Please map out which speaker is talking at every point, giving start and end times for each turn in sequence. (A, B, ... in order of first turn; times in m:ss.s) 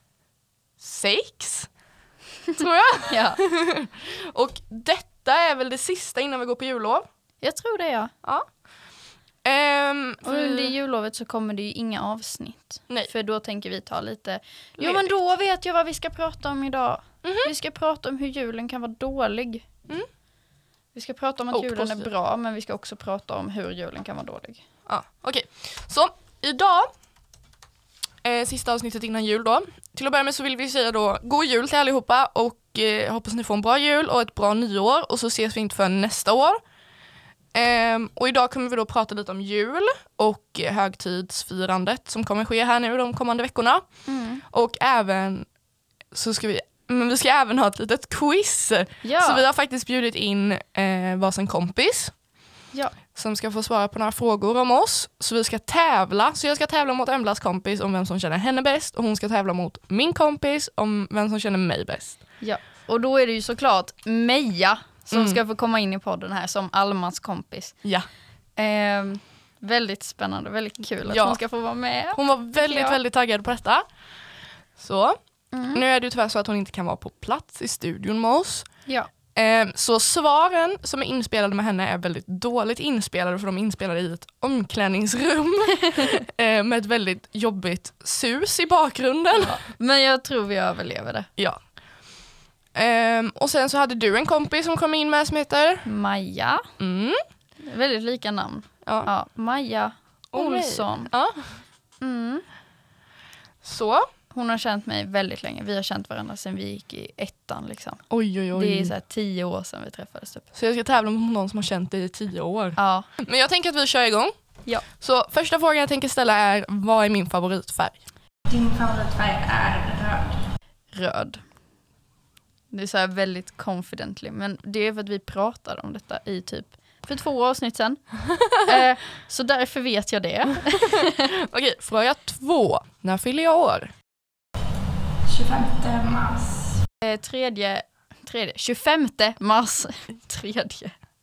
0:00.8-0:01.7 A
0:02.6-0:07.0 A
0:03.1-0:03.4 B
0:07.4-0:08.1 B
0:08.2-0:08.6 A
0:09.4-0:10.7 A
0:10.2-0:19.7 B
0:14.8-0:15.1 A
0:17.2-0:17.5 A
0:20.9-0:24.6 B
0:21.5-0:22.1 A
0:24.8-0:26.9 A
0:28.2-0:36.6 A
0:37.5-0:45.5 A
0:44.0-0:44.4 B
0:46.1-0:52.2 A
0:49.0-0:49.4 B
0:53.1-1:02.2 A
1:02.4-1:07.8 B
1:05.1-1:05.4 A
1:08.6-1:13.0 B
1:11.0-1:11.6 A
1:12.1-1:13.8 A
1:14.8-1:29.6 A
1:15.5-1:15.8 B
1:29.4-1:31.3 B
1:31.4-1:35.9 A
1:35.8-1:36.6 B
1:36.8-1:37.2 A
1:37.6-1:41.1 B
1:40.3-1:41.6 A
1:42.0-1:42.4 B
1:43.6-1:44.1 A
1:44.3-1:50.4 B
1:48.1-1:48.9 A
1:50.5-1:58.0 A
1:52.8-1:53.1 B
1:58.5-2:00.4 C
2:00.9-2:01.4 B
2:02.7-2:11.1 B
2:10.8-2:13.9 A
2:15.2-2:16.8 C
2:17.0-2:21.0 B